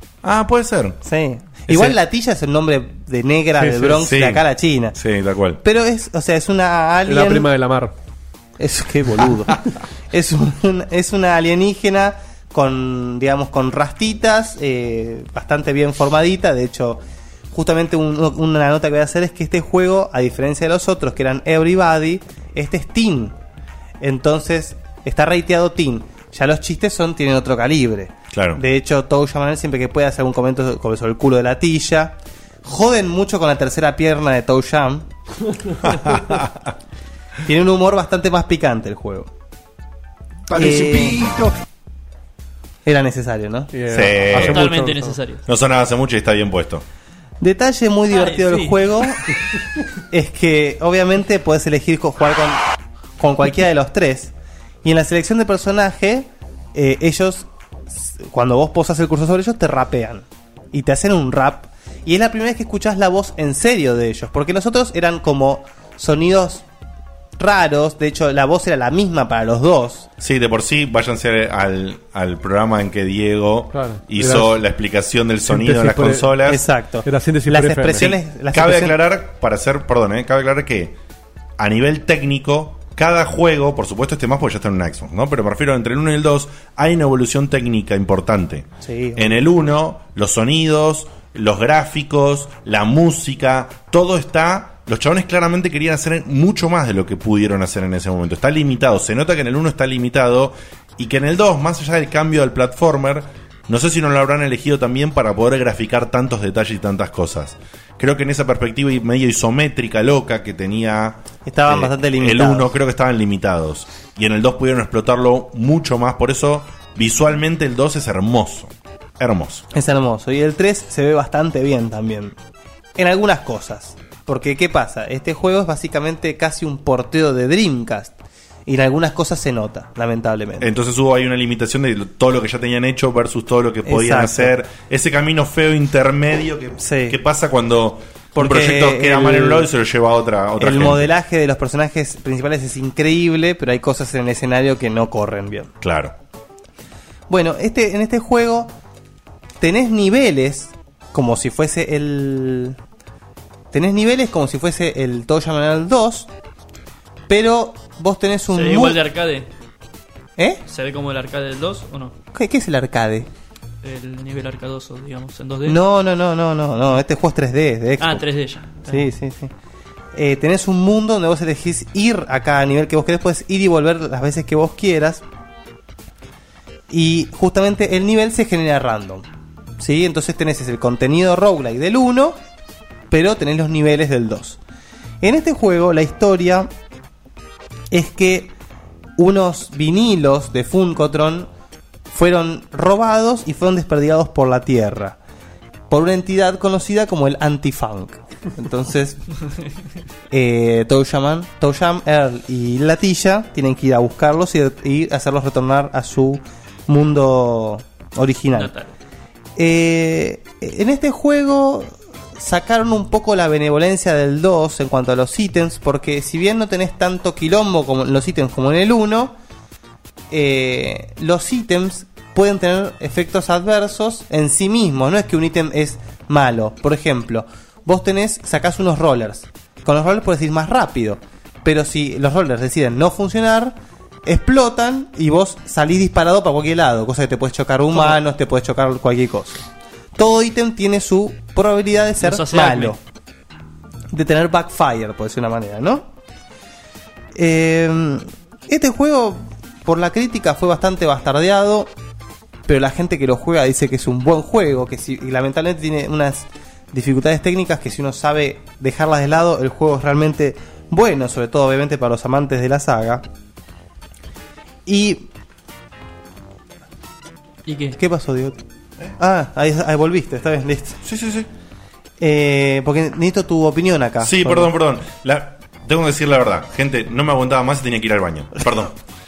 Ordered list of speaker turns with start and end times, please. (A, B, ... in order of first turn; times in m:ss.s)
0:00.2-0:01.0 A
0:01.0-0:05.0 B
0:03.6-0:04.1 C
0:04.0-0:05.6 A
0:05.6-0:07.5 B
0:07.0-0:07.9 C
0:08.6-0:09.6 B
0:10.1-0:17.0 B
0:17.5-0:23.3 B
0:24.0-0:35.0 B
0:28.3-0:28.6 A
0:35.8-0:36.7 A
0:37.4-0:39.3 B
0:40.5-0:41.2 B
0:41.2-0:41.4 C
0:42.8-0:43.7 B
0:43.7-0:45.2 C
0:43.9-0:44.6 A
0:44.3-0:45.4 D
0:45.5-0:46.8 A
0:47.4-0:49.3 B
0:48.1-0:49.0 D
0:50.1-0:52.6 B
0:53.2-0:54.3 B
0:54.8-1:06.6 B
1:07.4-1:10.1 B
1:10.2-1:16.6 A
1:13.7-1:14.5 C
1:15.4-1:16.4 C
1:16.4-1:19.0 B
1:17.0-1:18.1 C
1:17.9-1:20.9 A
1:21.6-1:59.6 A
1:28.8-1:29.4 B
1:51.4-1:52.7 B
1:59.7-2:02.3 B
2:03.0-2:08.1 B
2:08.6-2:10.7 B
2:10.6-2:21.1 A
2:13.8-2:14.5 B
2:16.8-2:17.2 B
2:18.3-2:19.7 B
2:20.6-2:25.7 B
2:25.8-2:26.1 A
2:27.3-2:28.7 B
2:29.6-2:32.8 B
2:33.7-2:36.3 B
2:37.3-2:39.0 B
2:38.5-2:39.5 D
2:40.7-2:42.1 D
2:42.3-2:43.3 B
2:43.8-2:45.8 D
2:45.6-2:48.2 B
2:48.0-2:49.0 D
2:48.9-2:49.5 B
2:50.1-2:55.2 B
2:56.9-2:59.2 B
2:59.8-3:02.4 B
3:03.1-3:04.6 B
3:05.2-3:06.7 B
3:07.9-3:08.5 B
3:09.2-3:11.5 B
3:12.1-3:15.2 B
3:15.9-3:19.2 B
3:20.3-3:28.7 B
3:28.5-3:28.9 D
3:29.6-3:39.3 B
3:40.3-3:59.6 B
4:00.2-4:03.0 B
4:02.2-4:03.0 D
4:04.1-4:06.0 B
4:07.3-4:11.9 B
4:12.7-4:23.2 B
4:24.8-4:25.3 B
4:27.6-4:28.0 D
4:28.0-4:28.6 B
4:29.2-4:31.0 B
4:31.0-4:31.5 A
4:32.2-4:34.7 B
4:34.2-4:38.9 A